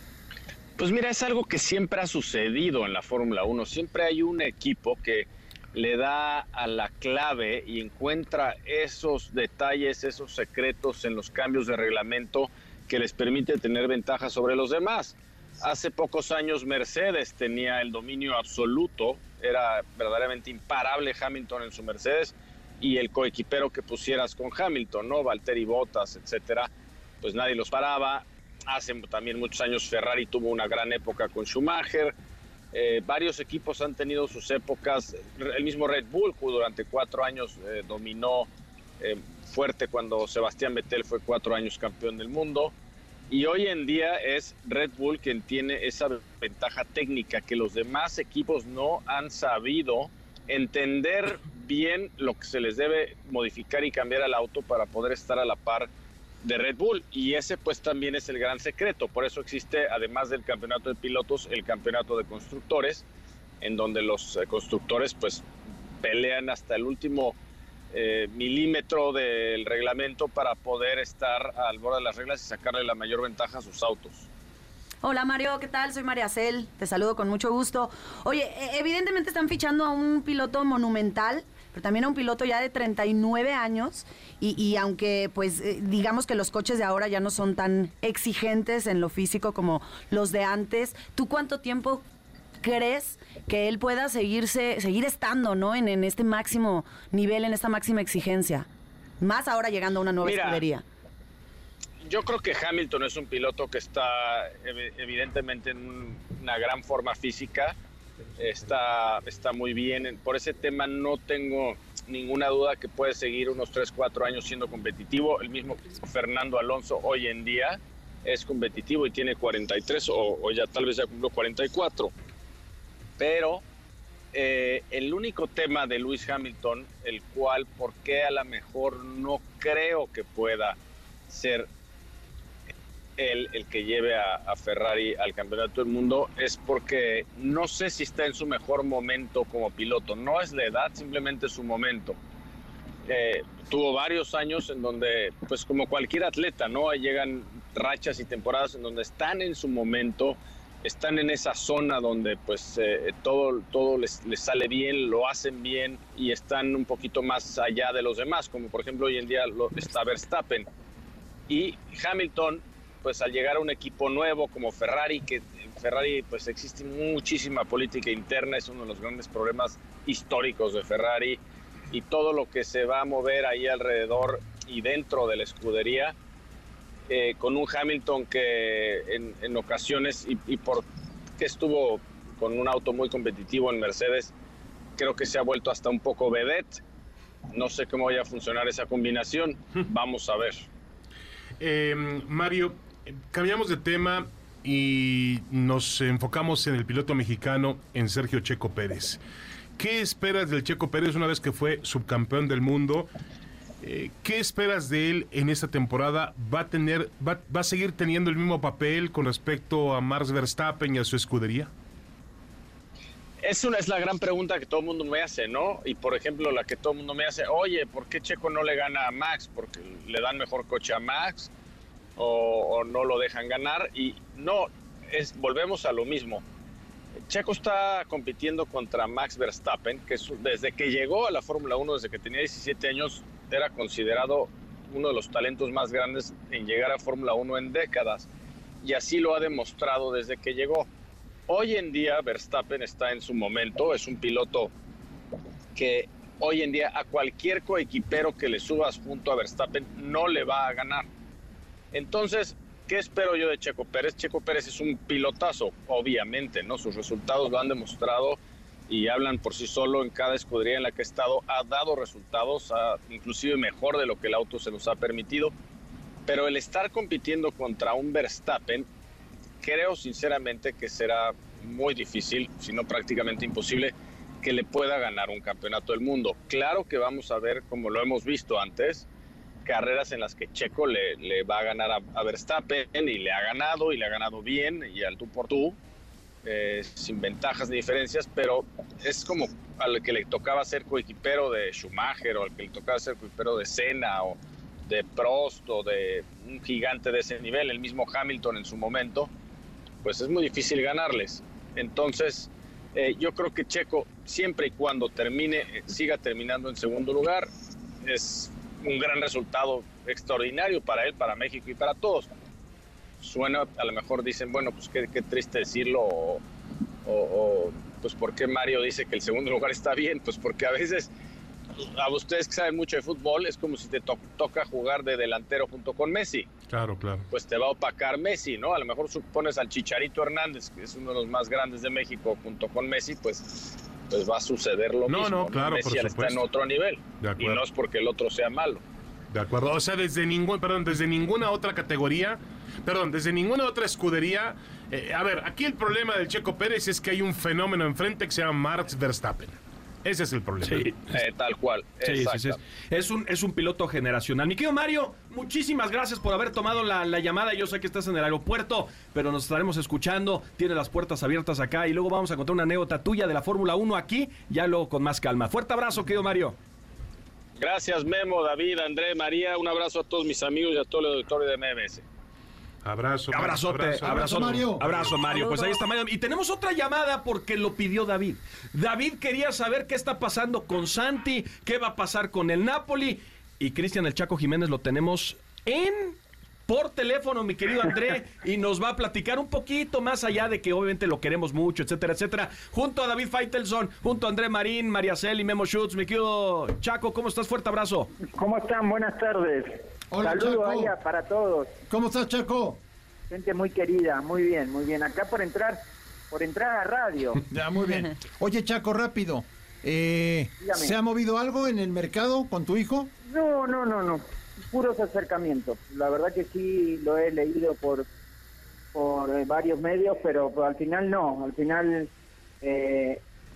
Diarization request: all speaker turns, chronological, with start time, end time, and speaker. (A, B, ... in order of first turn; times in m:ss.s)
0:00.8-0:26.7 A
0:27.2-0:32.1 A
0:32.7-0:38.5 A
0:39.0-0:42.7 A
0:43.3-0:55.9 A
0:56.4-1:03.0 A
1:03.6-1:05.4 A
1:06.0-1:07.4 A
1:07.9-1:14.3 A
1:15.0-1:32.0 B
1:32.6-1:38.7 B
1:39.2-1:40.8 B
1:40.2-1:40.6 A
1:42.0-1:47.8 A
1:48.4-2:02.1 A
2:03.2-2:03.6 A
2:04.3-2:10.8 A
2:11.3-2:11.7 A
2:13.2-2:22.2 A
2:23.1-2:40.7 A
2:41.5-2:51.4 A
2:51.9-2:56.2 A
2:57.1-3:00.8 A
3:01.4-3:04.3 A
3:05.0-3:06.8 A
3:07.5-3:10.7 A
3:11.6-3:19.2 C
3:19.8-3:23.1 C
3:23.8-3:31.7 C
3:33.4-3:41.5 A
3:42.2-3:46.4 A
3:47.3-3:58.3 A
3:58.8-4:00.9 A
4:01.5-4:04.7 A
4:05.8-4:11.1 A
4:11.9-4:18.4 A
4:18.9-4:25.5 A
4:26.3-4:28.9 A
4:29.6-4:39.1 A
4:39.6-4:45.8 A
4:46.4-4:59.3 A
5:00.0-5:07.5 A
5:08.0-5:12.3 A
5:13.2-5:16.4 A
5:17.0-5:21.1 A
5:21.8-5:26.5 A
5:26.7-5:27.2 C
5:27.3-5:38.8 A
5:35.1-5:36.4 C
5:37.2-5:37.6 C
5:39.3-5:50.9 C
5:50.6-5:51.2 D
5:51.1-5:52.6 A
5:52.0-6:06.6 D
6:07.6-6:12.0 A
6:12.8-6:15.1 C
6:13.3-6:38.1 D
6:14.0-6:14.9 E
6:38.3-6:41.7 F
6:40.1-6:40.9 E
6:41.9-6:42.8 E
6:43.3-6:47.4 F
6:47.5-6:53.1 E
6:50.6-6:50.9 F
6:53.3-6:58.1 F
6:58.9-7:03.2 F